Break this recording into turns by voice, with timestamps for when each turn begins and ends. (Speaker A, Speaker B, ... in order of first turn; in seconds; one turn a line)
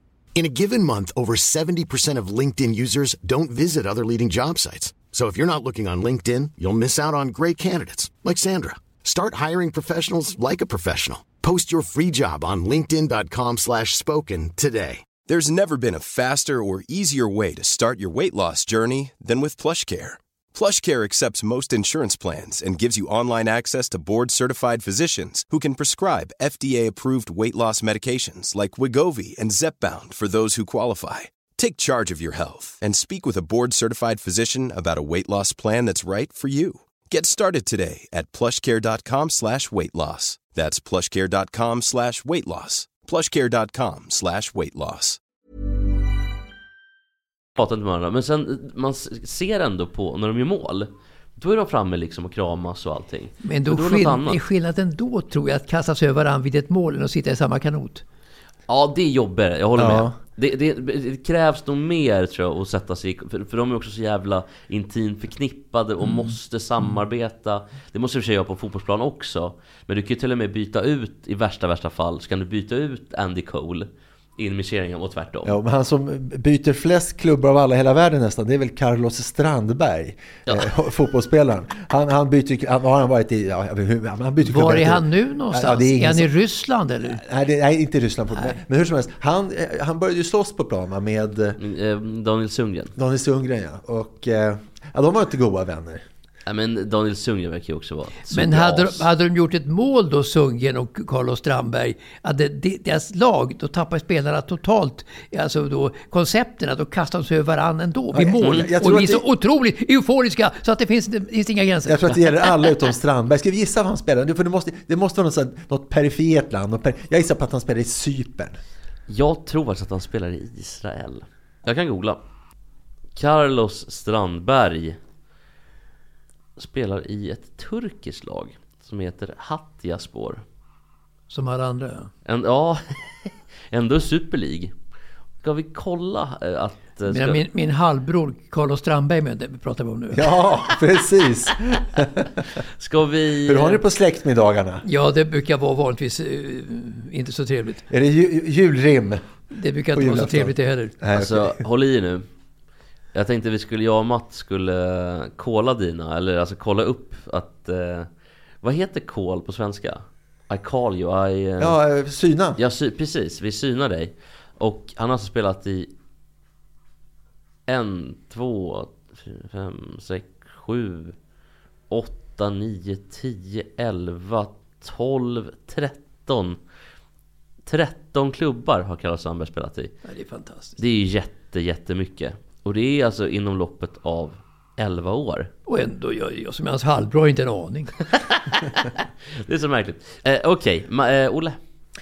Speaker A: 0.3-15.2
Speaker B: 15.2-45.2
Speaker C: 47.6-54.4
Speaker D: 53.4-58.0
Speaker C: 58.7-75.6
Speaker E: 59.8-60.1
Speaker E: 75.4-86.3
Speaker D: 84.4-87.2
Speaker E: 87.0-91.6
Speaker C: 91.6-92.9
Speaker E: 93.0-96.0
Speaker C: 96.5-99.0
Speaker D: 98.3-112.5
Speaker E: 108.1-109.2
Speaker E: 111.8-118.6
Speaker C: 119.1-122.2
Speaker C: 123.2-125.0
Speaker C: 126.6-130.4
Speaker D: 131.3-132.1
Speaker C: 132.2-134.7
Speaker C: 135.4-137.4
Speaker D: 137.1-140.4
Speaker E: 140.1-142.4
Speaker C: 142.8-143.8
Speaker E: 143.4-144.8
Speaker D: 144.8-147.8
Speaker E: 147.9-149.2
Speaker D: 149.5-150.9
Speaker E: 149.9-151.6
Speaker C: 151.1-152.2
Speaker C: 153.1-158.1
Speaker C: 158.6-161.8
Speaker E: 161.6-162.6
Speaker C: 162.6-165.9
Speaker C: 167.7-171.2
Speaker C: 171.9-176.6
Speaker C: 177.7-179.9
Speaker D: 180.0-180.8
Speaker C: 180.8-185.5
Speaker D: 185.7-188.0
Speaker C: 188.1-191.6